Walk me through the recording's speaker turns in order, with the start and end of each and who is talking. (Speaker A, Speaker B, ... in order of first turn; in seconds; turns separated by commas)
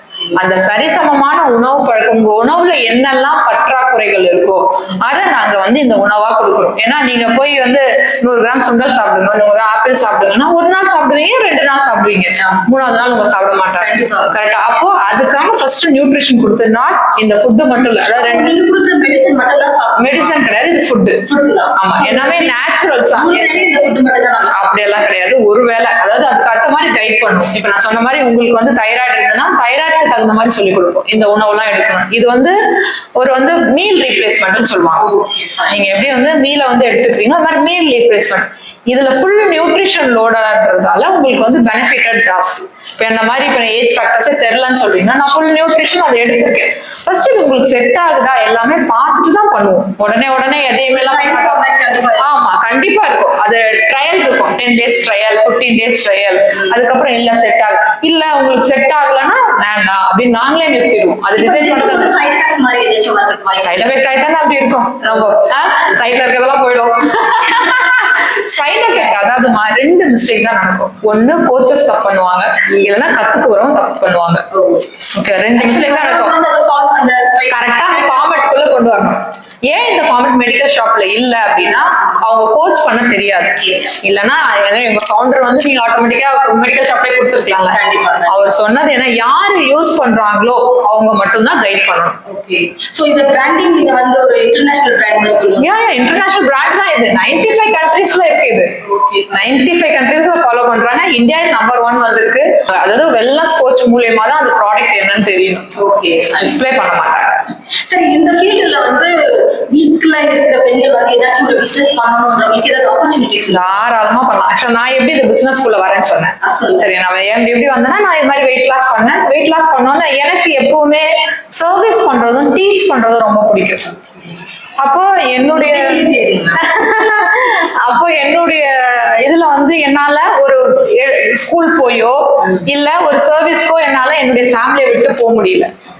Speaker A: 0.3-18.6, Speaker B: 13.8-14.4, Speaker B: 18.2-20.4, Speaker A: 20.0-21.2, Speaker B: 21.2-22.5, Speaker A: 21.8-23.7, Speaker B: 23.1-24.6, Speaker A: 24.5-32.5, Speaker A: 33.2-35.1, Speaker B: 35.0-36.1, Speaker A: 35.7-51.6, Speaker B: 50.9-52.3, Speaker A: 52.2-62.1, Speaker B: 61.4-64.0, Speaker A: 63.6-74.4, Speaker B: 74.5-74.9, Speaker A: 75.1-76.4, Speaker B: 75.5-78.5, Speaker A: 77.5-92.2, Speaker B: 83.7-83.9, Speaker B: 87.7-88.5, Speaker B: 92.3-96.2, Speaker A: 95.6-98.7, Speaker B: 98.8-99.5, Speaker A: 99.3-105.7, Speaker B: 105.8-106.6, Speaker A: 106.4-107.4, Speaker B: 107.9-113.8, Speaker A: 113.5-123.9, Speaker B: 116.4-116.9, Speaker A: 124.8-126.0, Speaker B: 125.5-126.7, Speaker A: 126.6-135.7